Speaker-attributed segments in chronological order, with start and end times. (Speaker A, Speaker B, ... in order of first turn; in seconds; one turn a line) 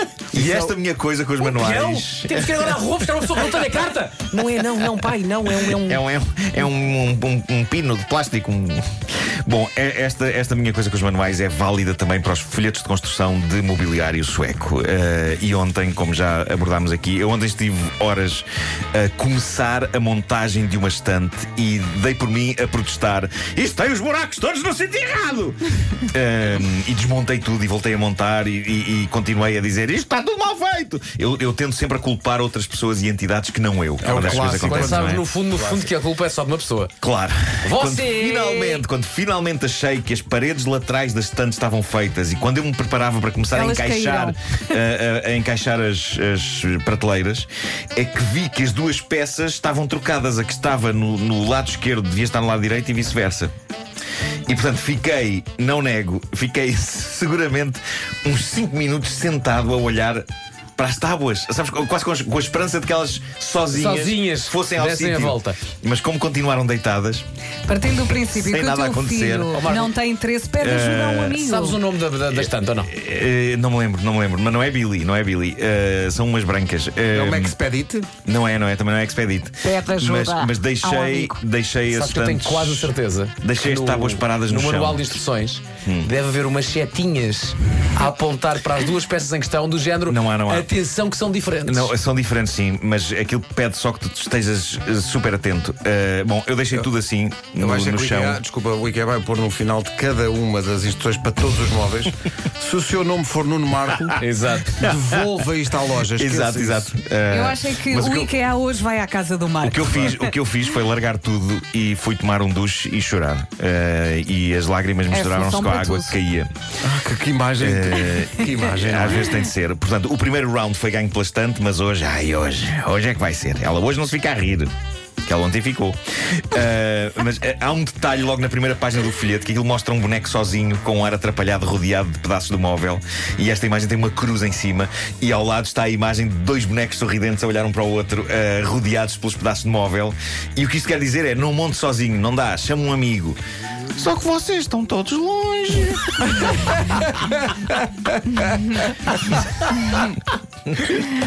Speaker A: 0.3-3.7
Speaker B: 0.4-0.7
Speaker C: 1.4-6.0
Speaker A: 5.5-35.2
Speaker B: 34.0-35.9
Speaker C: 34.2-36.9
Speaker A: 37.0-53.5
Speaker C: 37.6-38.8
Speaker D: 43.5-44.8
Speaker A: 54.5-60.2
Speaker A: 60.8-67.2
Speaker C: 63.7-65.6
Speaker D: 67.7-71.8
Speaker A: 68.3-69.6
Speaker C: 69.5-69.9
Speaker A: 70.6-71.4
Speaker C: 71.4-72.9
Speaker A: 72.3-77.6
Speaker B: 77.1-78.1
Speaker A: 78.2-85.2
Speaker D: 79.6-81.4
Speaker C: 81.9-91.9
Speaker A: 85.8-86.1
Speaker A: 90.1-90.7
Speaker A: 91.7-98.4
Speaker B: 97.6-104.2
Speaker C: 104.2-104.8
Speaker A: 104.8-105.4
Speaker B: 104.8-106.9
Speaker A: 106.1-108.3
Speaker D: 107.3-110.3
Speaker A: 109.6-116.5
Speaker D: 115.1-116.2
Speaker B: 116.8-119.4
Speaker A: 117.6-124.7
Speaker A: 125.2-143.4
Speaker A: 143.9-147.1